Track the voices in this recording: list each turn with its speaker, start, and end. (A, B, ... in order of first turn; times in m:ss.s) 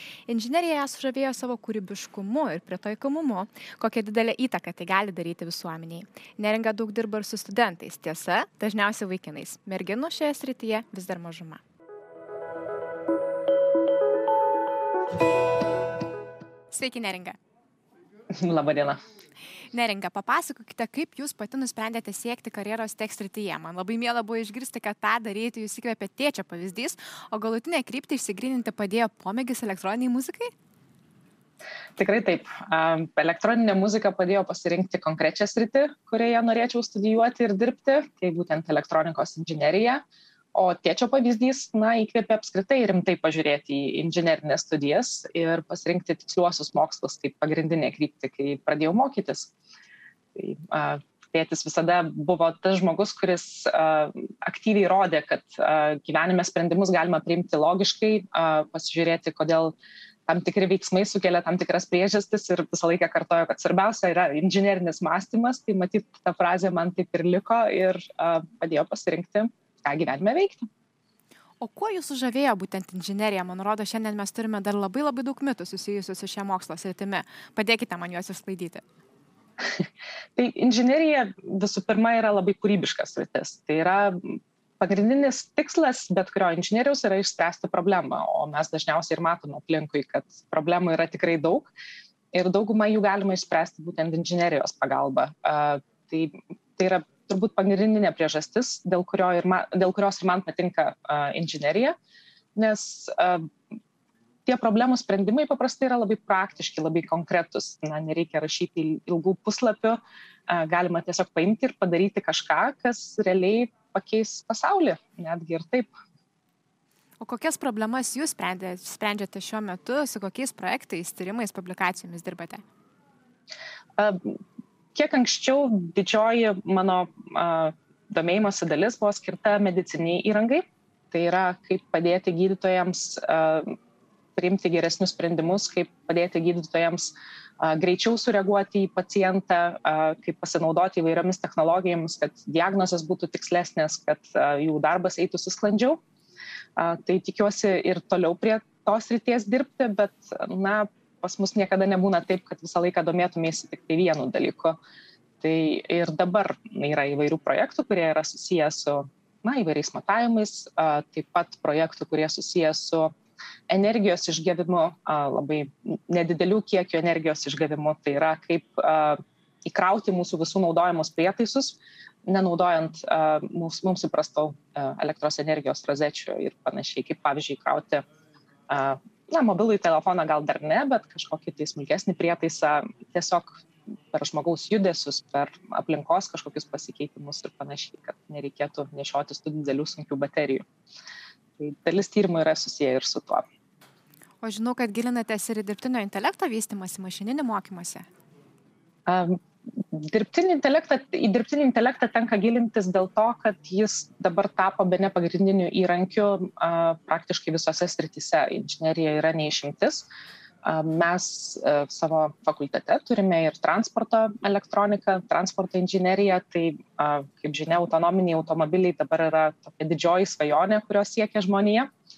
0:00.3-0:11.6 A
0:16.7-0:17.4 A
0:18.4-0:19.0 B
0:19.7-0:30.5 A
0:32.0-0:40.0 B
0:40.6-0:49.5 B
0:50.4-0:59.7 B
1:00.3-1:10.7 B
1:11.6-1:18.8 A
1:19.7-1:31.7 B
1:32.3-1:42.0 B
1:42.6-1:43.5 B
1:44.5-1:55.9 B
1:57.2-2:02.6 A
2:04.0-2:04.4 B
2:05.0-2:13.7 B
2:14.4-2:26.0 B
2:26.8-2:34.8 B
2:35.4-2:43.1 B
2:43.7-2:58.0 B
2:58.7-3:10.7 B
3:11.6-3:13.4 B
3:14.4-3:18.0 A
3:19.1-3:30.0 B
3:30.6-3:41.9 B